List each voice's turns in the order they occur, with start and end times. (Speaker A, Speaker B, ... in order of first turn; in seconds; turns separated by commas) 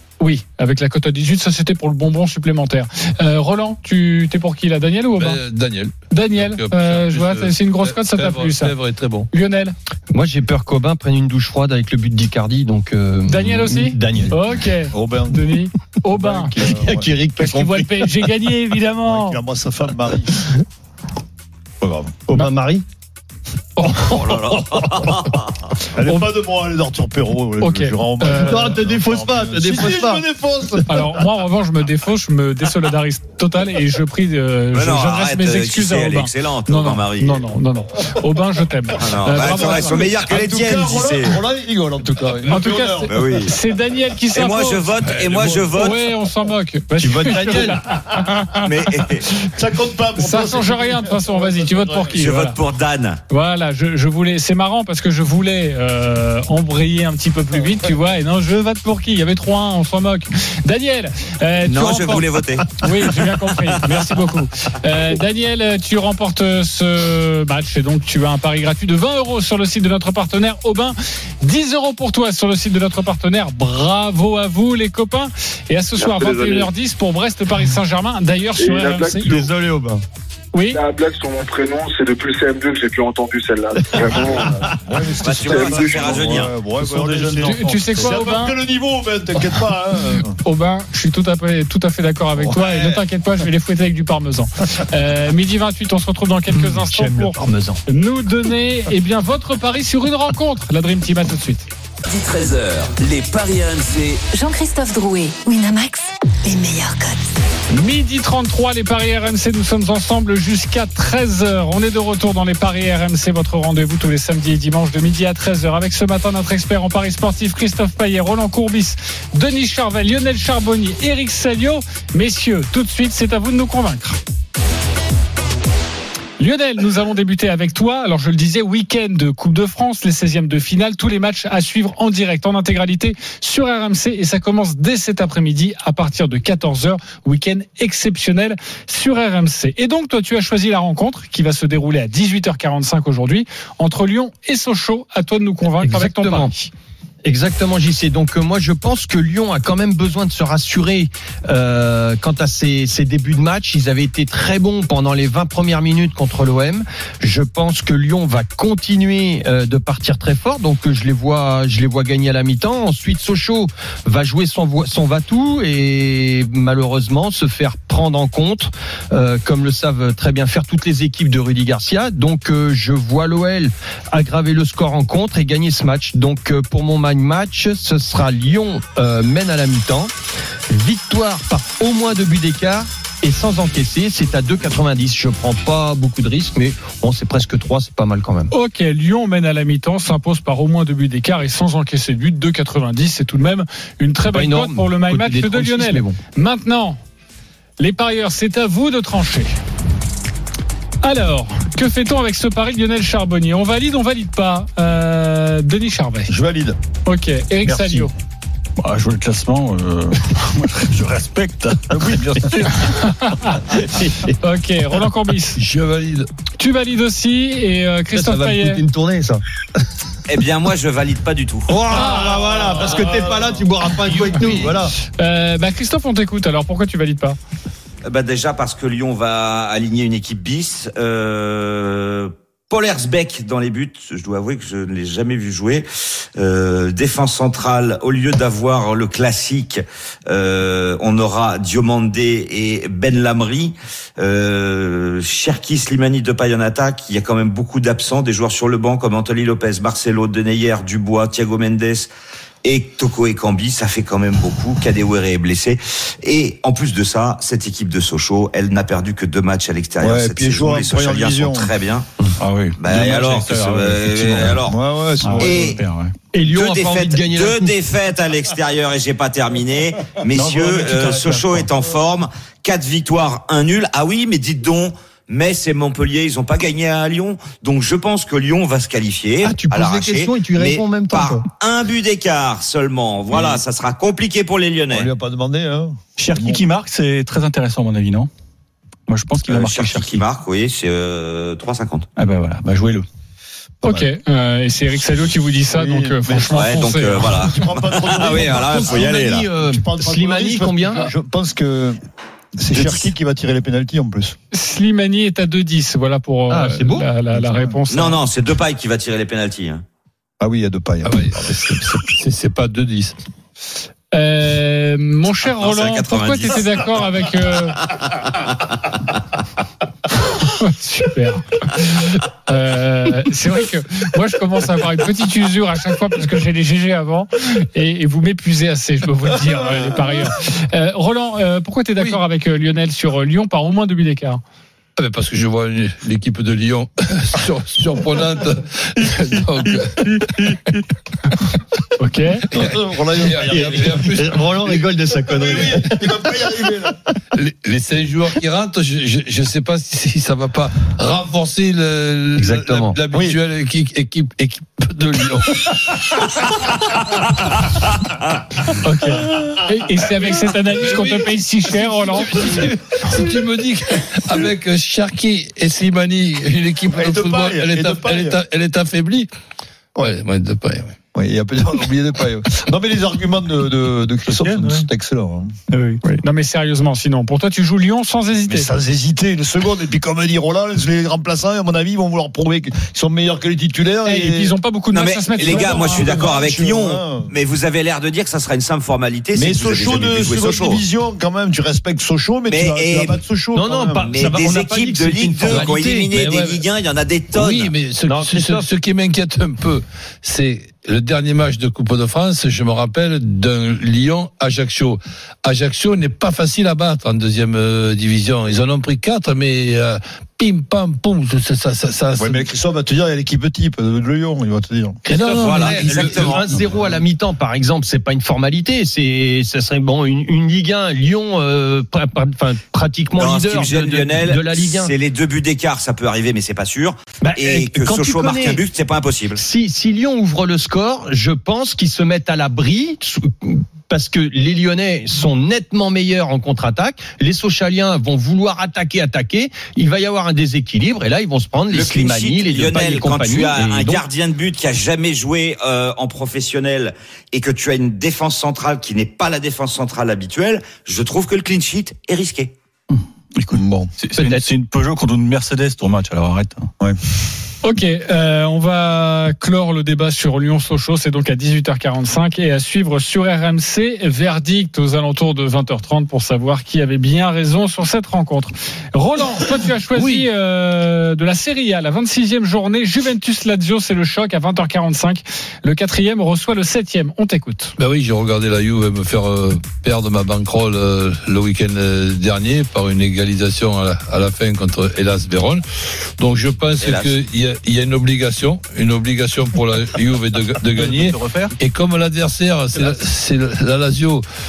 Speaker A: 0.2-5.4, Speaker B: 5.2-9.3, Speaker A: 6.1-8.8, Speaker A: 9.3-9.8, Speaker C: 10.1-14.4, Speaker A: 13.3-16.7, Speaker D: 14.9-17.1, Speaker C: 16.7-18.3, Speaker A: 17.4-19.4, Speaker D: 19.1-20.4, Speaker D: 21.8-22.2, Speaker C: 22.3-22.9, Speaker A: 23.8-24.1, Speaker C: 23.9-24.9, Speaker E: 24.1-25.5, Speaker D: 25.9-31.2, Speaker A: 27.6-28.7, Speaker C: 28.3-30.2, Speaker A: 30.9-40.2, Speaker E: 34.7-37.5, Speaker E: 39.0-41.4, Speaker D: 39.3-43.5, Speaker A: 42.5-44.9, Speaker E: 43.1-43.5, Speaker E: 44.3-46.0, Speaker B: 45.0-45.6, Speaker A: 45.8-48.6, Speaker C: 47.0-47.9, Speaker E: 48.6-49.3, Speaker D: 49.5-52.2, Speaker A: 50.2-52.6, Speaker E: 52.2-53.2, Speaker A: 53.3-79.4, Speaker E: 61.6-62.7, Speaker F: 76.1-76.6, Speaker F: 78.6-79.5, Speaker C: 79.2-80.0, Speaker A: 80.5-80.8, Speaker F: 80.7-84.7, Speaker D: 84.7-90.3, Speaker E: 85.2-86.5, Speaker F: 85.4-86.2, Speaker G: 86.8-88.1, Speaker A: 87.4-88.5, Speaker A: 90.4-101.7, Speaker D: 92.4-93.0, Speaker C: 96.5-97.8, Speaker H: 102.0-104.2, Speaker I: 104.3-107.4, Speaker A: 107.7-124.2, Speaker A: 126.4-146.7, Speaker C: 145.8-146.5, Speaker C: 147.2-180.1, Speaker C: 180.7-188.5, Speaker A: 188.5-197.0, Speaker C: 194.3-196.2, Speaker A: 197.8-199.5, Speaker A: 201.0-206.3, Speaker D: 206.3-206.8, Speaker A: 207.1-208.1, Speaker C: 207.7-208.1, Speaker G: 208.8-213.0, Speaker D: 211.9-212.6, Speaker A: 212.8-213.8, Speaker C: 213.8-214.4, Speaker A: 214.4-215.6, Speaker B: 215.6-216.3, Speaker A: 216.6-218.8, Speaker C: 218.1-219.4, Speaker E: 220.3-221.8, Speaker C: 221.7-224.9, Speaker A: 221.9-222.5, Speaker A: 224.4-227.4, Speaker E: 228.0-252.1, Speaker E: 252.6-262.1, Speaker D: 260.0-261.7, Speaker G: 262.4-264.7, Speaker E: 262.8-264.8, Speaker D: 264.7-265.8, Speaker G: 265.2-266.1, Speaker E: 265.4-265.8, Speaker C: 266.3-267.7, Speaker E: 266.4-285.1, Speaker G: 270.3-271.7, Speaker C: 279.4-281.5, Speaker D: 283.3-283.6, Speaker D: 284.9-286.6, Speaker G: 286.2-288.3, Speaker G: 289.1-290.2, Speaker E: 289.4-292.1, Speaker G: 292.2-293.1, Speaker A: 293.8-297.5, Speaker D: 295.7-302.0, Speaker E: 296.5-299.5, Speaker C: 298.4-301.1, Speaker D: 302.6-304.4, Speaker E: 302.7-303.1, Speaker A: 304.5-308.2, Speaker C: 306.5-307.1, Speaker D: 307.3-307.8, Speaker E: 307.9-309.9, Speaker D: 310.4-311.6, Speaker B: 311.0-313.2, Speaker A: 314.1-317.8, Speaker E: 315.4-317.2, Speaker E: 317.9-318.4, Speaker A: 320.4-334.4, Speaker B: 335.0-340.7, Speaker C: 340.2-340.7, Speaker A: 342.0-342.4, Speaker B: 342.5-344.8, Speaker D: 342.5-344.2, Speaker C: 343.4-346.1, Speaker D: 345.3-346.9, Speaker B: 347.3-357.4, Speaker C: 352.4-353.0, Speaker D: 353.1-353.4, Speaker A: 358.8-362.4, Speaker B: 360.7-369.3, Speaker D: 366.9-368.4, Speaker B: 370.0-370.9, Speaker D: 371.1-375.6, Speaker G: 374.3-374.9, Speaker G: 375.7-376.1, Speaker A: 376.1-378.7, Speaker D: 378.5-384.6, Speaker A: 384.1-386.2, Speaker E: 384.9-390.8, Speaker D: 385.4-387.3, Speaker D: 389.3-394.1, Speaker E: 392.5-393.2, Speaker C: 393.5-396.6, Speaker E: 394.0-397.7, Speaker B: 396.1-396.5, Speaker B: 397.3-412.5, Speaker C: 398.0-398.7, Speaker D: 412.2-415.0, Speaker B: 415.0-416.9, Speaker C: 415.2-424.9, Speaker E: 415.2-416.6, Speaker E: 423.2-429.4, Speaker C: 427.2-428.6, Speaker C: 429.4-444.1, Speaker E: 441.7-452.5, Speaker G: 452.9-456.7, Speaker D: 453.5-453.9, Speaker C: 454.2-454.4, Speaker A: 457.6-477.7, Speaker B: 469.9-470.3, Speaker B: 477.8-494.2, Speaker E: 486.8-487.2, Speaker G: 490.7-491.6